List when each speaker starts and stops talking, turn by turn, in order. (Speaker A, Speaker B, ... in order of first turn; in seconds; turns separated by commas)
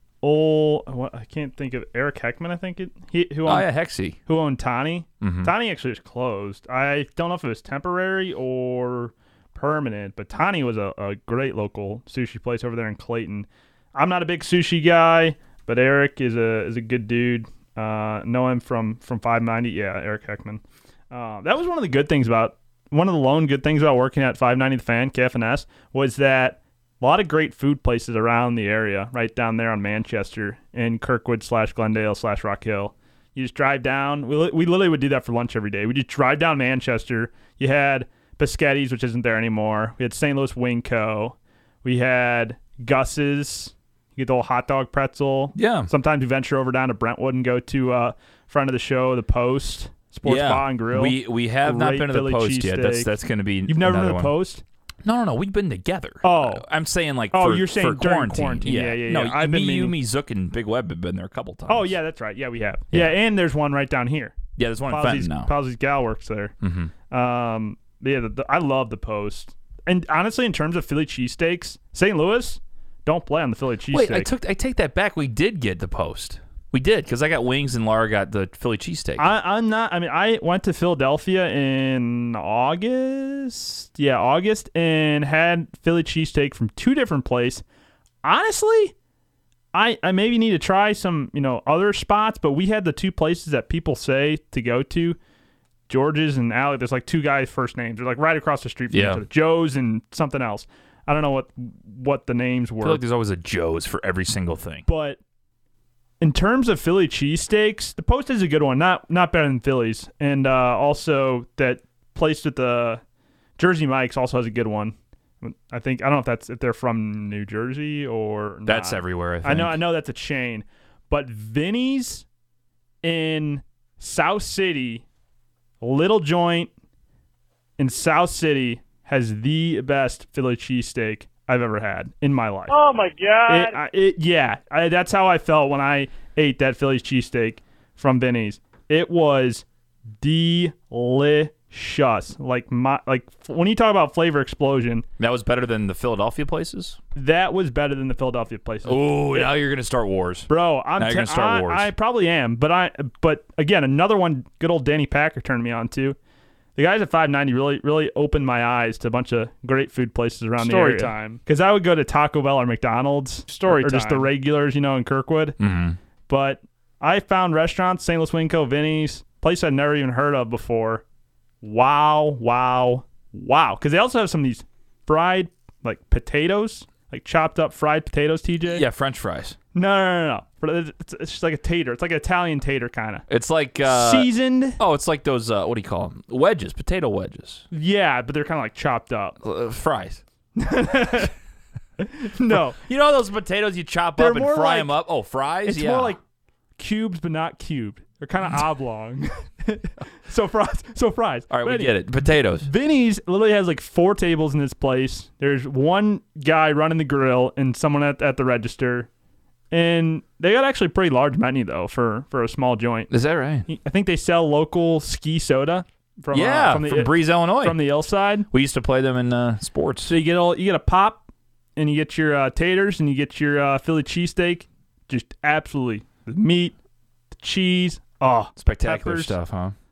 Speaker A: 0.2-3.7, Speaker B: 3.5-4.2, Speaker A: 4.3-53.1, Speaker B: 5.2-5.5, Speaker B: 45.6-45.9, Speaker B: 50.2-54.3, Speaker A: 53.7-54.6, Speaker B: 55.0-62.0, Speaker A: 56.2-56.6, Speaker A: 57.3-60.0, Speaker A: 61.7-64.4, Speaker B: 64.6-65.5, Speaker A: 64.9-66.5, Speaker B: 66.6-66.9, Speaker A: 67.1-74.3, Speaker B: 73.9-79.3, Speaker A: 79.2-87.6, Speaker A: 88.2-88.9, Speaker A: 89.7-95.2, Speaker A: 95.9-103.0, Speaker B: 98.9-99.2, Speaker B: 102.8-104.9, Speaker A: 104.9-105.2, Speaker A: 106.2-113.0, Speaker A: 113.6-122.3, Speaker B: 118.7-119.8, Speaker A: 123.0-125.0, Speaker A: 125.8-126.7, Speaker A: 127.8-132.8, Speaker C: 132.7-133.7, Speaker A: 133.5-139.7, Speaker A: 140.2-145.1, Speaker B: 145.2-147.0, Speaker A: 147.2-149.5, Speaker B: 148.8-151.9, Speaker A: 150.5-156.2, Speaker A: 156.8-165.6, Speaker C: 160.6-161.1, Speaker C: 163.5-164.3, Speaker B: 165.6-166.0, Speaker A: 166.3-171.0, Speaker A: 171.6-178.8, Speaker B: 178.7-179.6, Speaker A: 179.7-183.3, Speaker B: 183.3-187.7, Speaker A: 183.8-184.8, Speaker A: 187.7-189.4, Speaker B: 189.4-190.2, Speaker A: 190.6-191.3, Speaker A: 192.0-192.8, Speaker B: 192.5-196.2, Speaker A: 194.2-194.9, Speaker A: 195.7-196.2, Speaker A: 196.8-202.0, Speaker B: 201.5-202.7, Speaker A: 202.6-209.1, Speaker A: 209.7-213.1, Speaker B: 213.1-213.7, Speaker A: 213.7-218.5, Speaker B: 216.3-217.8, Speaker B: 218.5-220.2, Speaker A: 220.1-221.2, Speaker A: 221.8-226.8, Speaker A: 227.4-229.3, Speaker B: 228.6-229.8